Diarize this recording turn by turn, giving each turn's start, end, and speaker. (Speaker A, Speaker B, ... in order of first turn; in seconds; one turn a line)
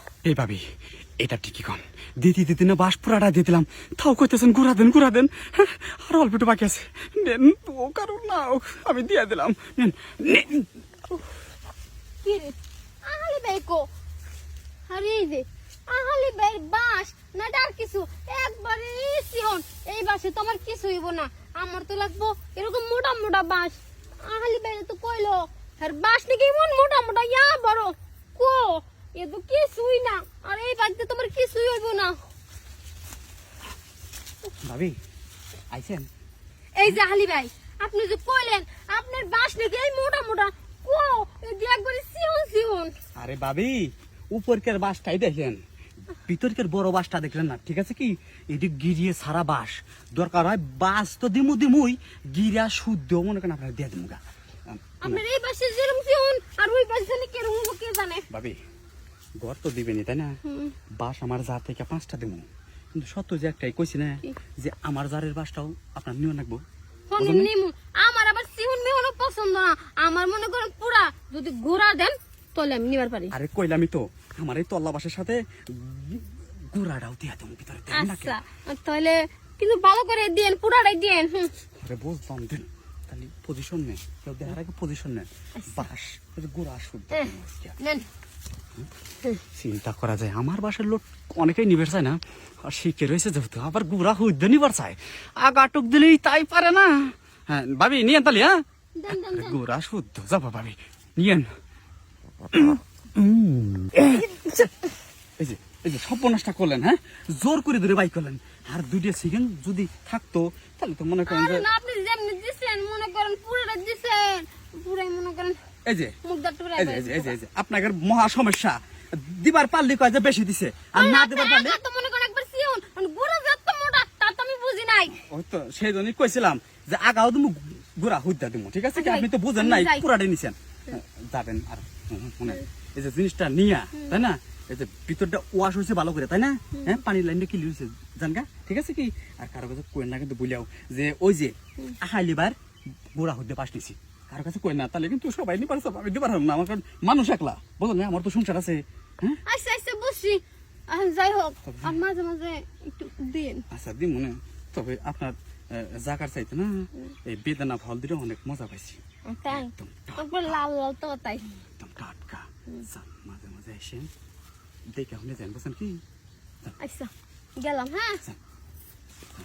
Speaker A: 0.2-0.6
Speaker A: 1.2-10.7
Speaker B: 12.2-13.8
Speaker B: 14.9-32.2
Speaker A: 34.6-35.0
Speaker A: 35.7-36.1
Speaker B: 36.8-42.9
Speaker A: 43.2-45.6
Speaker A: 46.3-55.2
Speaker B: 55.0-58.3
Speaker A: 58.3-58.6
Speaker A: 59.4-60.4
Speaker B: 60.4-60.7
Speaker A: 61.0-66.6
Speaker B: 67.1-73.3
Speaker A: 67.2-67.5
Speaker A: 73.3-78.4
Speaker B: 77.9-81.5
Speaker A: 81.8-87.8
Speaker B: 85.6-85.8
Speaker B: 87.1-88.0
Speaker A: 89.5-101.5
Speaker B: 99.0-99.6
Speaker A: 102.5-104.3
Speaker B: 104.1-104.7
Speaker A: 105.4-111.7
Speaker B: 111.3-115.6
Speaker A: 115.8-116.1
Speaker B: 116.2-117.3
Speaker A: 116.8-121.8
Speaker B: 120.9-125.2
Speaker A: 125.1-142.6
Speaker B: 128.9-130.0
Speaker A: 143.1-149.4
Speaker B: 149.4-153.6
Speaker A: 151.6-152.0
Speaker A: 153.7-159.0
Speaker B: 159.2-161.6
Speaker A: 159.5-160.6
Speaker A: 161.8-164.1
Speaker A: 164.9-166.0
Speaker B: 166.8-168.2